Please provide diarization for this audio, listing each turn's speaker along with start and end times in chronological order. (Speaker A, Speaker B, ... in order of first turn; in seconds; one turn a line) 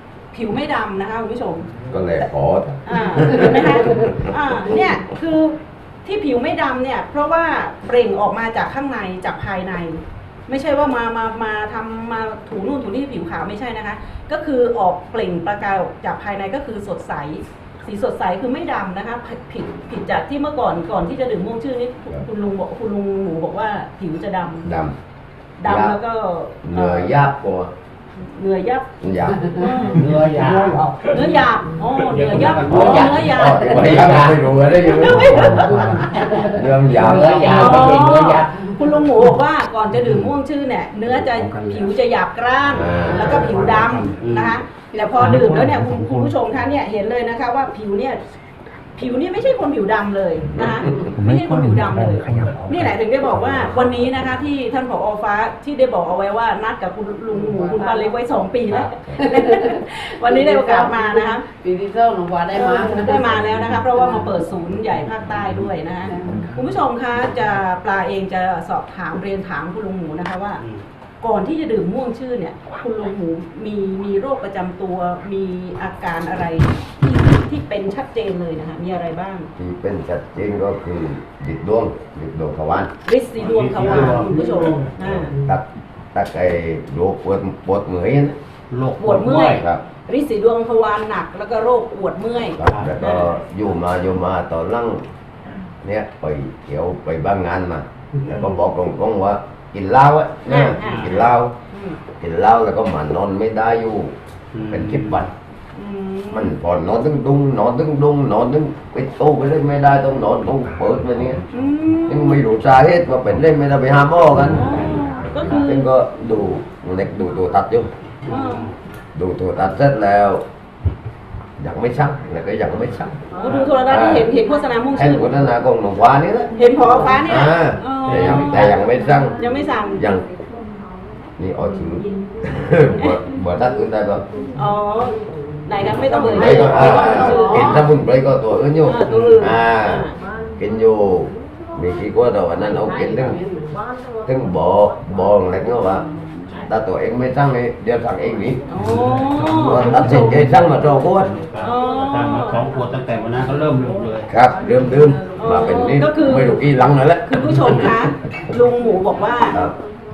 Speaker A: 0.3-1.7
Speaker B: 1.9-4.3
Speaker A: 2.9-24.7
Speaker C: 3.4-3.9
Speaker B: 24.6-25.0
Speaker A: 25.6-27.2
Speaker B: 25.6-26.0
Speaker B: 26.6-27.7
Speaker A: 28.2-28.9
Speaker B: 29.0-29.5
Speaker A: 29.6-30.1
Speaker D: 29.9-31.2
Speaker A: 31.1-33.8
Speaker D: 32.1-34.4
Speaker B: 32.6-35.7
Speaker A: 34.8-36.2
Speaker D: 35.7-38.6
Speaker C: 35.8-36.6
Speaker B: 36.5-38.0
Speaker A: 37.4-48.2
Speaker B: 42.7-43.8
Speaker D: 44.2-44.5
Speaker C: 44.9-45.5
Speaker A: 49.0-61.4
Speaker B: 50.5-51.0
Speaker C: 57.3-58.1
Speaker B: 58.7-59.2
Speaker C: 59.2-63.4
Speaker A: 62.5-70.6
Speaker C: 63.9-64.2
Speaker C: 66.1-66.5
Speaker A: 71.2-79.5
Speaker B: 79.6-82.9
Speaker A: 83.1-85.3
Speaker D: 83.4-85.4
Speaker B: 85.0-88.3
Speaker D: 88.7-89.6
Speaker A: 89.0-93.3
Speaker B: 89.3-89.8
Speaker B: 92.6-95.0
Speaker B: 95.8-101.5
Speaker A: 100.5-102.0
Speaker D: 100.8-101.1
Speaker B: 102.2-104.2
Speaker D: 104.5-105.3
Speaker B: 104.7-105.3
Speaker A: 105.8-106.5
Speaker B: 106.3-111.4
Speaker A: 111.5-112.4
Speaker B: 112.1-114.9
Speaker A: 114.4-115.9
Speaker B: 115.4-117.9
Speaker A: 118.3-118.7
Speaker D: 118.3-118.7
Speaker B: 119.1-120.4
Speaker B: 121.6-123.2
Speaker A: 123.4-125.3
Speaker D: 123.4-123.8
Speaker B: 123.9-124.3
Speaker B: 124.9-129.4
Speaker A: 126.6-128.7
Speaker D: 128.1-128.8
Speaker A: 129.4-130.0
Speaker B: 130.0-130.3
Speaker B: 131.4-134.2
Speaker A: 134.6-137.8
Speaker B: 135.9-140.1
Speaker C: 136.3-137.9
Speaker A: 138.9-140.2
Speaker B: 140.6-143.4
Speaker C: 142.6-143.8
Speaker B: 144.3-146.1
Speaker B: 146.7-148.6
Speaker A: 148.7-150.2
Speaker D: 149.2-154.3
Speaker B: 149.5-151.3
Speaker A: 151.6-152.6
Speaker B: 154.3-157.9
Speaker A: 155.4-156.6
Speaker A: 157.3-159.6